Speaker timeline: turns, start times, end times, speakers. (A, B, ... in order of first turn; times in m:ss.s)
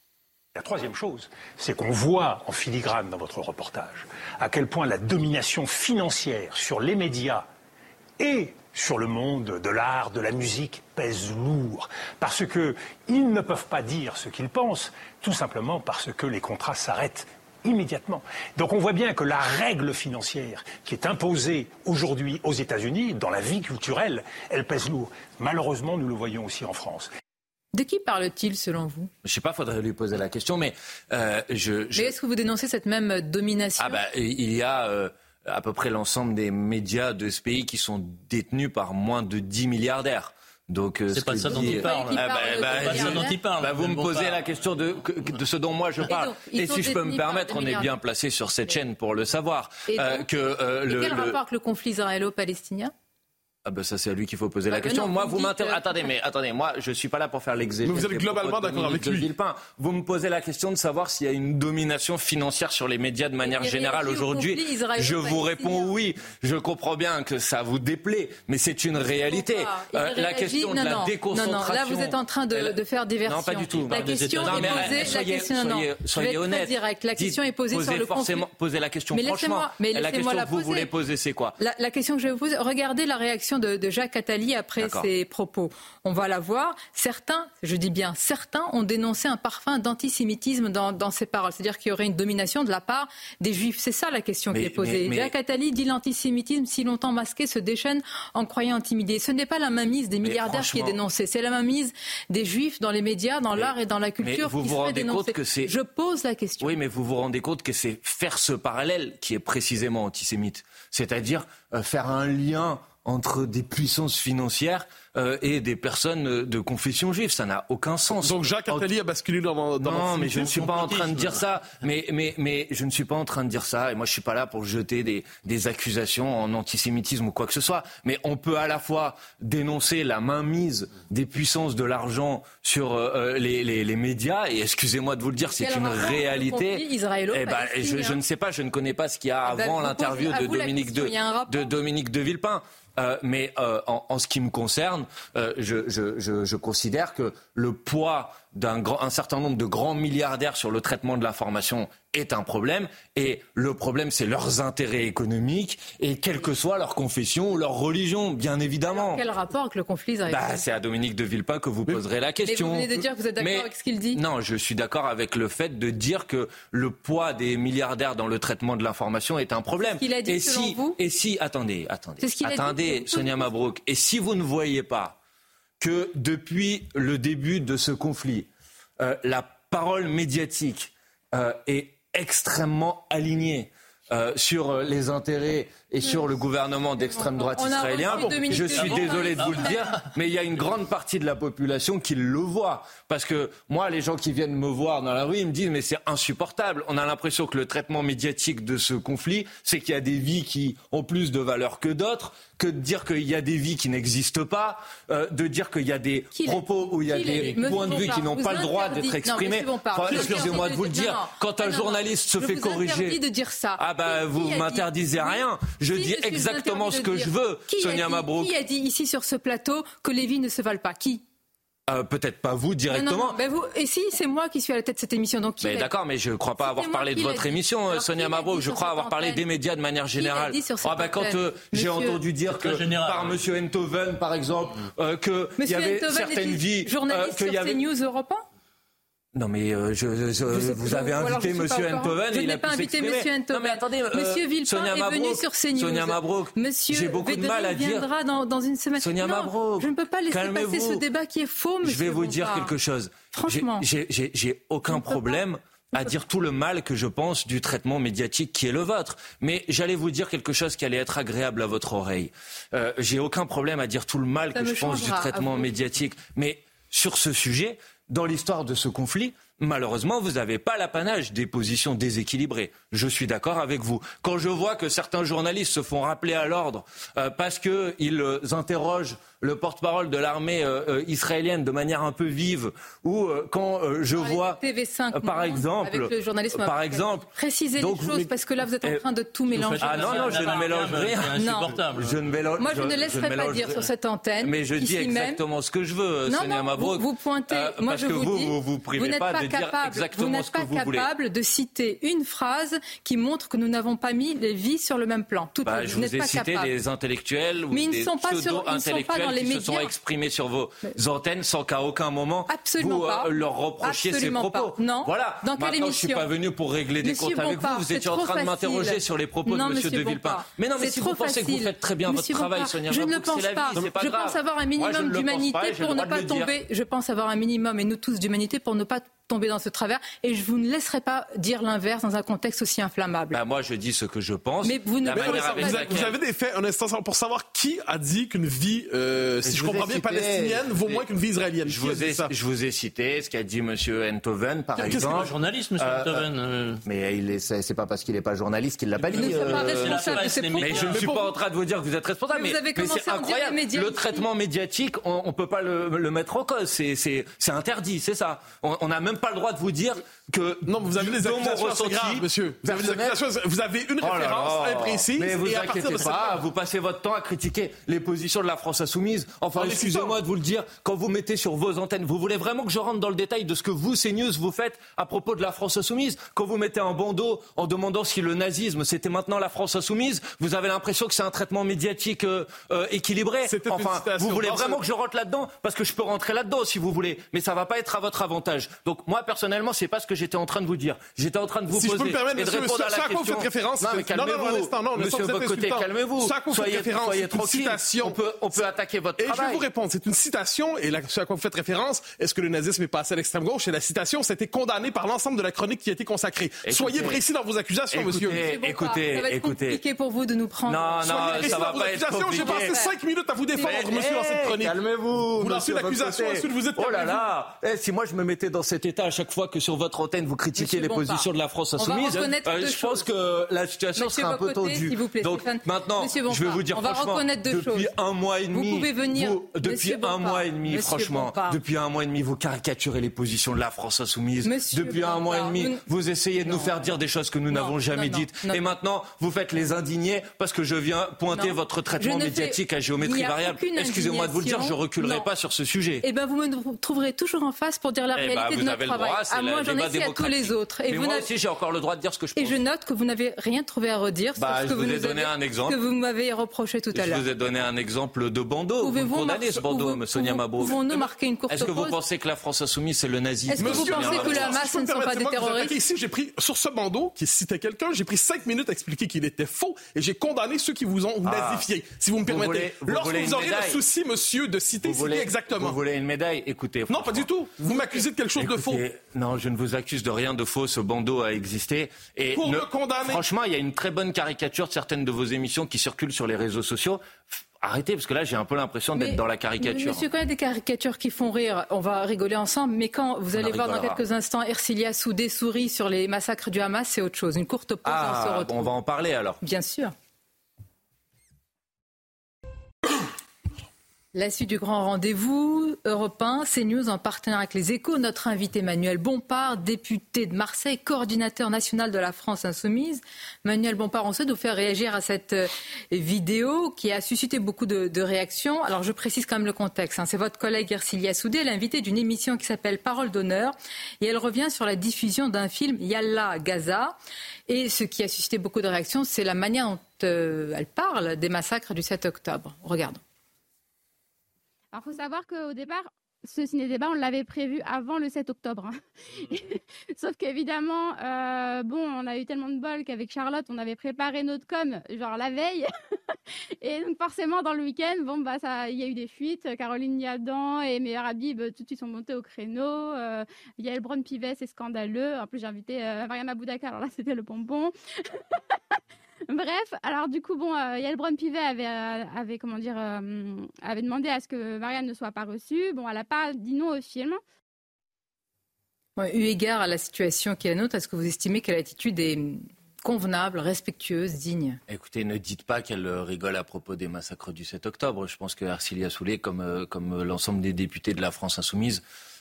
0:00.6-0:07.5 A
0:08.2-0:27.1 A
0:27.7-0:29.1 B
0:29.2-0:32.2 C
0:32.0-0:34.0 B
0:33.8-0:51.4 C
0:41.1-0:44.5 D
0:41.5-0:43.4 B
0:46.1-0:47.9 B
0:49.9-0:50.3 B
0:50.9-0:52.9 B
0:53.6-1:21.6 C
0:54.7-0:56.0 B
0:57.8-0:59.3 E
1:03.4-1:05.9 B
1:09.3-1:18.4 B
1:13.7-1:15.2 D
1:19.1-1:20.9 B
1:21.6-1:46.8 B
1:24.8-1:25.1 C
1:34.5-1:35.3 C
1:40.2-1:41.0 C
1:43.6-1:45.8 C
1:46.6-1:58.9 C
1:58.2-2:00.7 E
1:59.8-2:39.2 C
2:00.6-2:01.4 D
2:15.6-2:18.2 B
2:19.5-2:21.7 B
2:38.9-2:40.6 B
2:40.3-2:55.2 C
2:42.4-2:44.2 B
2:50.0-2:51.0 B
2:52.2-2:53.5 B
2:55.8-2:58.5 C
2:59.0-3:33.2 C
3:07.0-3:09.8 B
3:08.5-3:10.1 D
3:26.4-3:41.2 B
3:33.8-3:38.6 C
3:41.9-3:43.4 C
3:42.9-3:45.9 B
3:45.6-3:57.8 C
3:46.6-3:49.4 B
3:50.2-3:52.2 B
3:52.5-3:53.4 D
3:55.6-3:58.4 B
3:59.3-4:08.1 C
4:00.5-4:12.7 B
4:09.0-4:11.0 C
4:11.8-4:48.3 C
4:13.3-4:13.9 B
4:14.9-4:15.4 B
4:24.5-4:25.7 B
4:44.2-4:50.7 B
4:49.5-4:52.2 D
4:49.8-4:53.9 C
4:51.4-4:51.8 B
4:52.6-4:55.4 B
4:54.4-5:01.1 C
4:56.3-5:06.7 B
5:05.6-5:26.5 C
5:07.7-5:09.9 B
5:12.5-5:16.3 B
5:17.0-5:33.4 B
5:33.3-5:36.1 C
5:34.6-5:36.1 B
5:35.1-5:42.3 E
5:39.4-5:41.0 C
5:41.6-5:46.3 C
5:44.8-5:46.8 D
5:44.8-5:45.3 E
5:46.8-6:03.2 C
5:49.1-5:51.1 D
5:49.1-5:50.9 B
5:50.8-5:51.3 E
5:52.3-5:54.3 B
6:00.7-6:06.4 E
6:04.0-6:39.6 C
6:09.6-6:10.2 E
6:23.4-6:24.8 E
6:31.7-6:38.6 E
6:39.2-6:48.4 E
6:46.7-6:47.2 C
6:47.9-6:49.8 C
6:48.3-6:53.0 B
6:50.7-6:52.8 C
6:51.0-6:57.2 E
6:53.5-6:54.2 B
6:53.6-7:26.1 C
7:00.6-7:01.3 B
7:01.8-7:03.1 B
7:04.0-7:07.9 B
7:08.5-7:11.6 B
7:14.4-7:15.8 B
7:17.5-7:18.6 B
7:21.3-7:25.3 B
7:26.0-7:31.3 B
7:28.2-7:32.6 C
7:32.4-7:37.2 B
7:34.4-7:35.8 C
7:36.9-7:44.6 C
7:38.8-7:42.0 B
7:43.5-7:45.8 B
7:43.6-7:55.8 E
7:51.2-7:51.7 C
7:52.3-7:53.8 C
7:54.8-7:57.3 C
7:56.9-7:58.8 E
7:58.4-8:10.0 C
8:02.4-8:03.2 E
8:09.0-8:18.7 B
8:13.3-8:14.0 C
8:17.8-8:19.4 C
8:19.4-8:19.9 B
8:24.1-8:46.9 B
8:47.5-8:53.0 B
8:54.7-9:05.7 F
9:06.6-9:18.8 F
9:19.3-9:27.2 F
9:29.0-9:34.6 B
9:34.7-9:41.8 C